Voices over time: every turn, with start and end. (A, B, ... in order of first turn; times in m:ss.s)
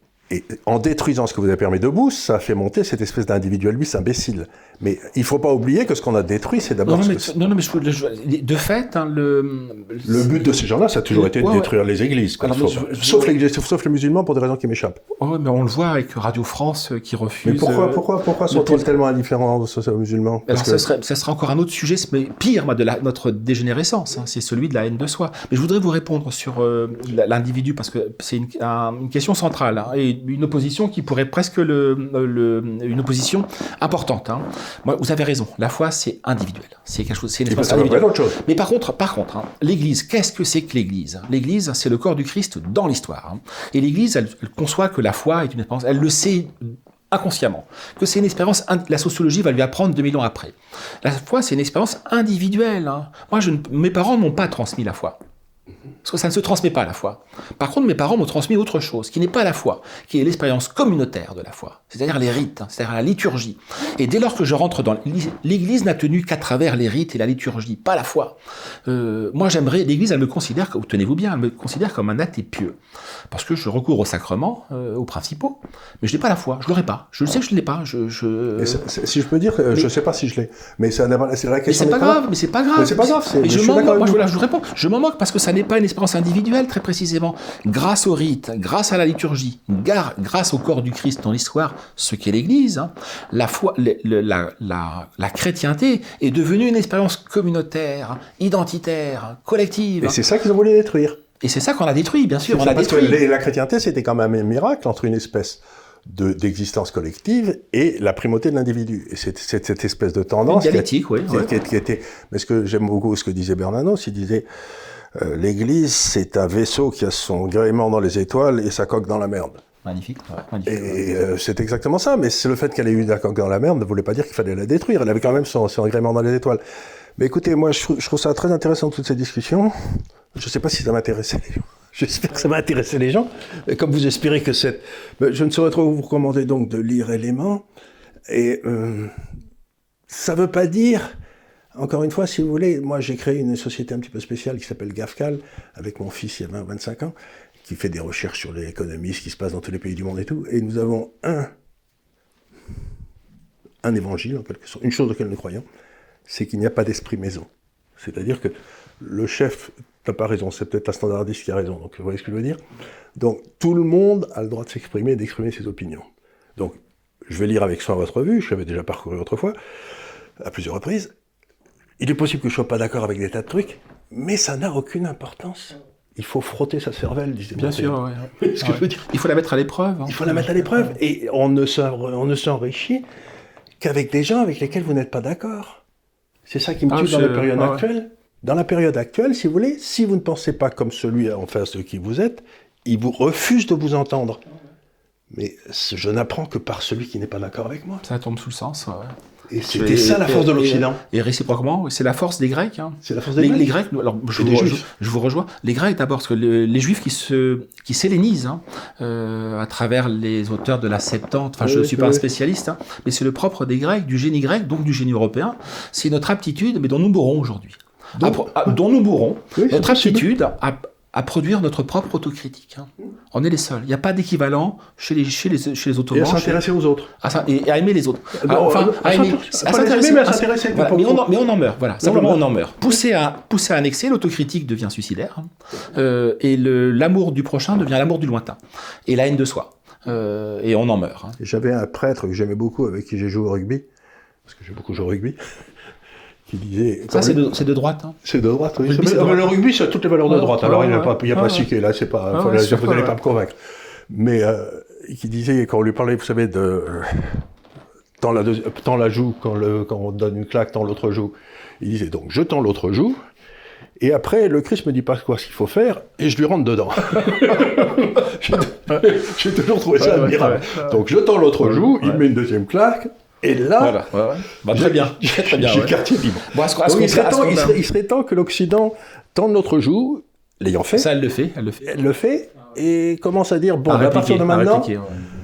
0:00.3-0:07.3 A
0:06.8-0:10.5 B
0:10.0-0:15.0 A
0:11.1-0:11.7 B
0:12.4-0:13.3 B
0:15.2-0:18.8 B
0:17.4-0:20.8 A
0:20.5-0:55.2 B
0:37.5-0:38.4 A
0:56.0-1:12.8 B
1:13.3-1:18.9 B
1:18.6-1:22.2 A
1:21.7-1:40.2 B
1:22.7-1:24.2 A
1:40.0-1:41.2 A
1:41.4-1:43.2 B
1:42.5-1:54.4 A
1:50.5-1:51.5 B
1:55.1-1:59.6 A
1:59.8-2:01.2 B
2:00.6-2:06.6 A
2:07.2-2:17.6 A
2:18.3-2:19.1 A
2:20.1-2:21.1 A
2:21.7-2:31.5 A
2:33.8-2:35.6 A
2:36.3-2:37.5 A
2:38.0-2:42.6 A
2:43.2-2:49.5 A
2:50.4-2:51.1 A
2:52.0-2:59.1 A
2:57.6-3:00.6 B
3:00.0-3:03.0 A
3:03.8-3:05.8 A
3:06.5-3:14.4 A
3:06.9-3:07.8 B
3:15.3-3:18.0 A
3:18.0-3:19.2 B
3:19.5-3:21.0 A
3:19.7-3:46.6 B
3:23.0-3:23.7 A
3:24.4-3:24.8 A
3:31.6-3:32.2 A
3:38.2-3:38.8 A
3:39.5-3:40.3 A
3:46.1-3:47.1 A
3:47.2-4:01.4 B
3:48.3-3:51.3 A
3:52.0-3:52.4 A
4:01.4-4:03.8 A
4:04.4-4:05.4 A
4:06.5-4:07.6 A
4:07.1-4:08.2 B
4:08.2-4:13.5 A
4:08.8-4:09.5 B
4:10.3-4:11.7 B
4:12.3-4:13.2 B
4:14.1-4:17.4 A
4:18.2-4:23.2 A
4:24.0-4:34.0 A
4:27.1-4:28.1 B
4:30.0-4:31.0 B
4:31.6-4:32.2 B
4:33.8-4:37.8 B
4:34.7-4:41.1 A
4:40.9-4:42.0 B
4:41.8-4:44.9 A
4:43.9-4:45.3 B